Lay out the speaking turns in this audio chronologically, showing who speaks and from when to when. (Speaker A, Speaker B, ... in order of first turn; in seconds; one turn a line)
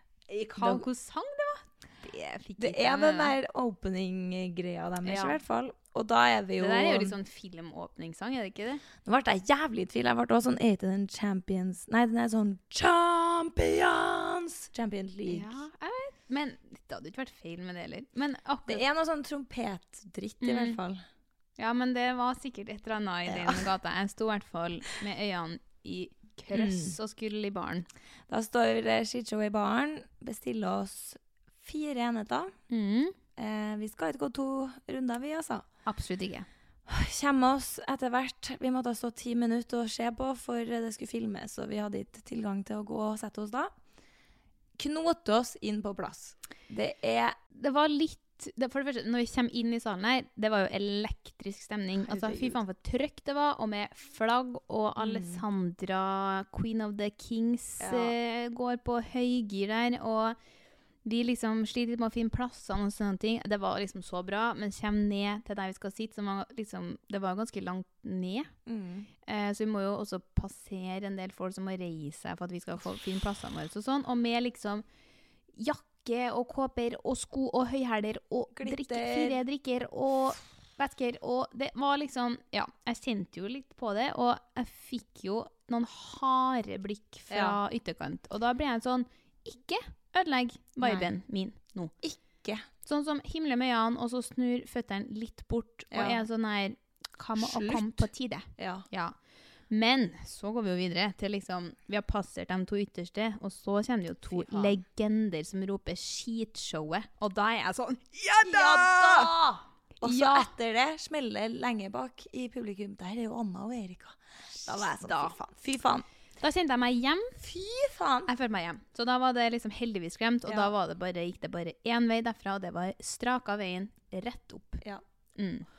Speaker A: 0.3-3.4
Speaker B: 0.6-0.8
Speaker B: 2.6-7.2
Speaker A: 5.0-5.4
Speaker A: 6.6-8.8
Speaker B: 9.0-15.6
Speaker A: 15.3-18.8
Speaker B: 18.7-21.0
Speaker A: 20.4-20.8
Speaker A: 21.6-27.9
Speaker B: 23.3-23.7
Speaker B: 26.5-27.0
Speaker B: 28.3-32.5
Speaker A: 32.7-33.1
Speaker B: 33.4-35.6
Speaker A: 35.9-36.5
Speaker B: 36.9-43.7
Speaker B: 44.8-47.4
Speaker A: 47.5-60.4
Speaker B: 52.0-52.6
Speaker B: 55.0-55.4
Speaker B: 57.8-58.1
Speaker A: 61.0-68.5
Speaker B: 68.7-69.1
Speaker A: 69.3-74.8
Speaker A: 75.5-91.9
Speaker B: 78.5-79.4
Speaker B: 87.3-87.6
Speaker B: 90.8-91.1
Speaker B: 92.0-92.7
Speaker A: 92.8-99.2
Speaker B: 95.9-96.2
Speaker B: 97.4-98.9
Speaker A: 99.7-109.3
Speaker B: 104.3-104.8
Speaker B: 108.4-116.1
Speaker A: 110.0-110.5
Speaker A: 115.0-115.4
Speaker A: 116.4-117.3
Speaker B: 117.4-118.3
Speaker A: 118.3-124.8
Speaker B: 120.5-120.7
Speaker A: 125.4-125.7